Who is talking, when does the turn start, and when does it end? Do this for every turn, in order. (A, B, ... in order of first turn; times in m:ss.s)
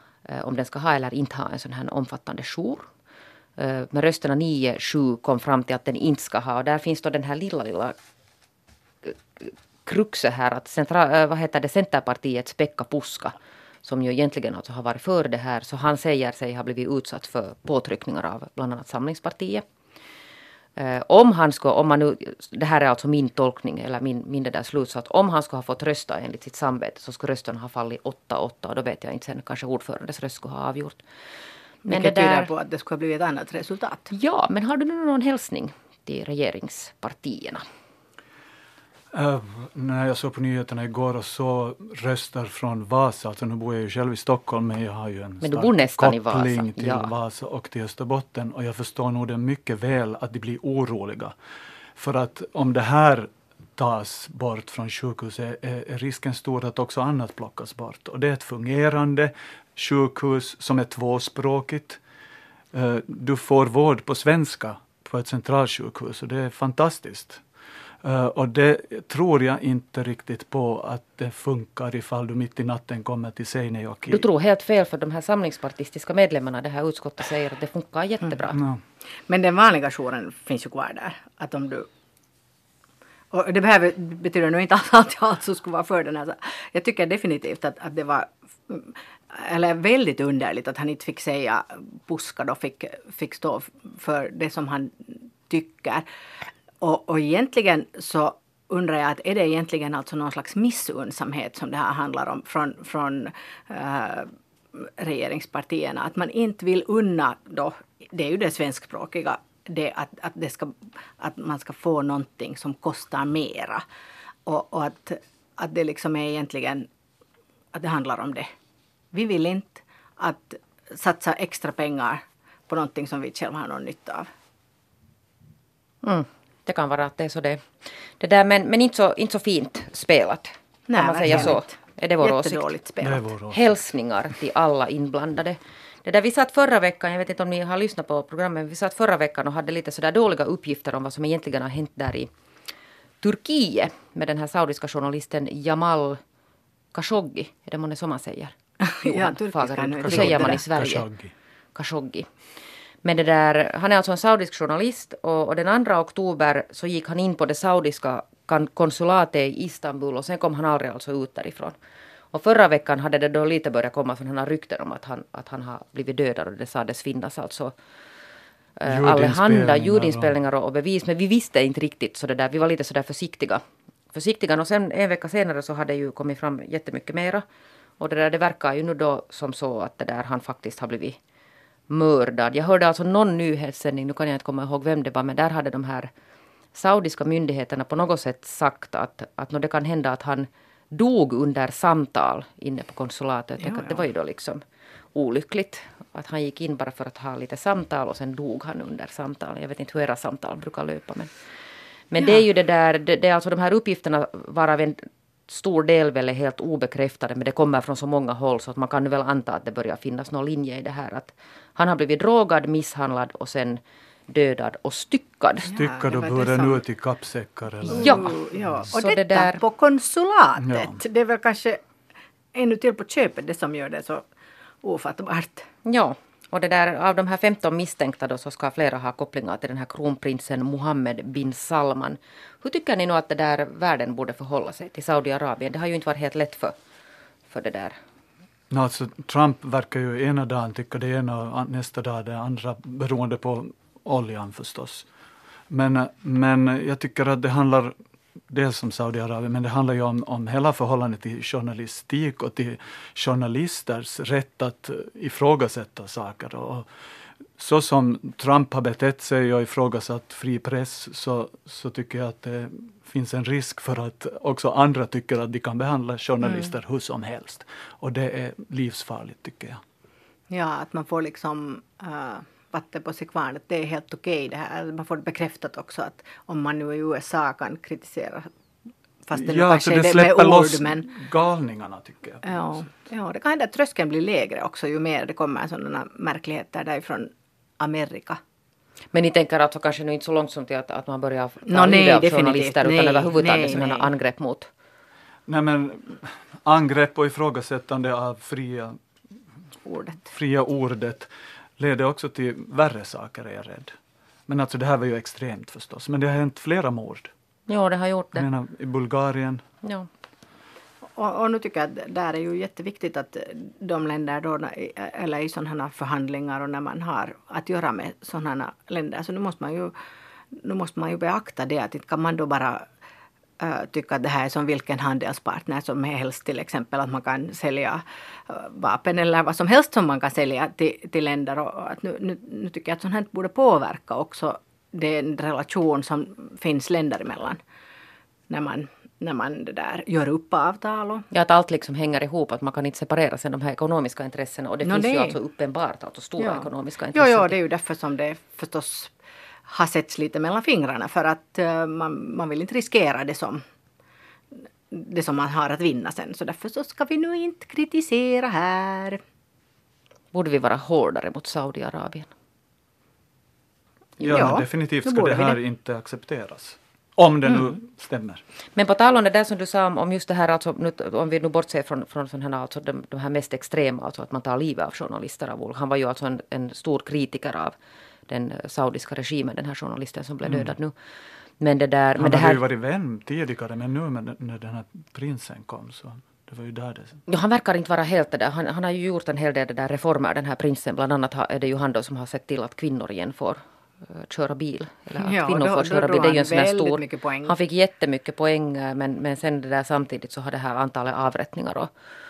0:00.3-0:02.9 A
0:03.6-0:08.0 A
0:09.0-0:19.6 A
0:20.8-0:31.0 A
0:31.9-0:32.5 A
0:31.9-0:34.1 B
0:34.1-0:37.6 A
0:39.1-0:51.3 C
0:45.4-0:47.1 A
0:52.0-1:02.0 C
1:02.7-1:07.4 C
1:08.0-1:14.2 C
1:14.1-1:18.6 A
1:18.5-1:18.8 C
1:19.3-1:21.9 B
1:23.3-1:36.1 B
1:36.8-1:53.8 B
1:54.5-1:56.9 B
1:57.7-1:58.5 B
1:59.1-2:04.3 B
2:06.0-2:12.7 A
2:10.9-2:13.3 B
2:11.3-2:11.5 C
2:13.0-2:13.6 C
2:13.5-2:22.3 A
2:23.2-2:26.2 A
2:26.9-2:31.1 A
2:28.8-2:30.6 B
2:30.0-2:31.3 C
2:31.8-2:32.3 A
2:33.0-2:41.8 A
2:42.3-2:47.7 A
2:48.8-2:57.4 A
2:48.9-2:50.4 C
2:58.0-3:01.2 A
3:01.9-3:06.1 A
3:06.7-3:14.6 A
3:13.6-3:14.0 B
3:15.2-3:21.3 A
3:22.1-3:35.7 A
3:35.7-3:36.8 B
3:35.7-3:38.6 C
3:37.9-3:41.8 B
3:38.0-3:39.6 A
3:40.6-3:41.0 C
3:42.5-3:44.2 B
3:44.8-3:45.7 B
3:45.8-3:56.8 A
3:57.5-3:58.0 A
3:58.7-4:05.1 C
4:05.7-4:08.0 C
4:08.5-4:16.9 C
4:17.6-4:29.8 C
4:26.4-4:26.7 B
4:30.5-4:38.5 B
4:39.2-4:41.1 B
4:39.4-4:42.6 C
4:42.4-4:48.4 B
4:49.1-4:54.7 A
4:51.7-4:54.1 B
4:55.5-4:59.0 C
4:59.8-5:00.3 B
5:00.3-5:04.0 C
5:04.5-5:07.3 C
5:07.7-5:08.5 A
5:08.4-5:09.6 C
5:09.8-5:10.1 A
5:11.2-5:19.9 B
5:20.5-5:22.8 B
5:23.6-5:37.6 B
5:38.5-5:41.3 B
5:41.3-5:47.6 A
5:44.8-5:45.4 B
5:46.4-5:49.1 B
5:49.7-5:53.6 B
5:54.9-5:59.2 B
6:00.3-6:02.3 A
6:04.2-6:08.4 C
6:04.2-6:05.6 B
6:08.8-6:17.8 A
6:18.3-6:20.9 A
6:21.6-6:22.6 A
6:22.2-6:27.2 C
6:27.3-6:41.9 A
6:35.2-6:37.5 B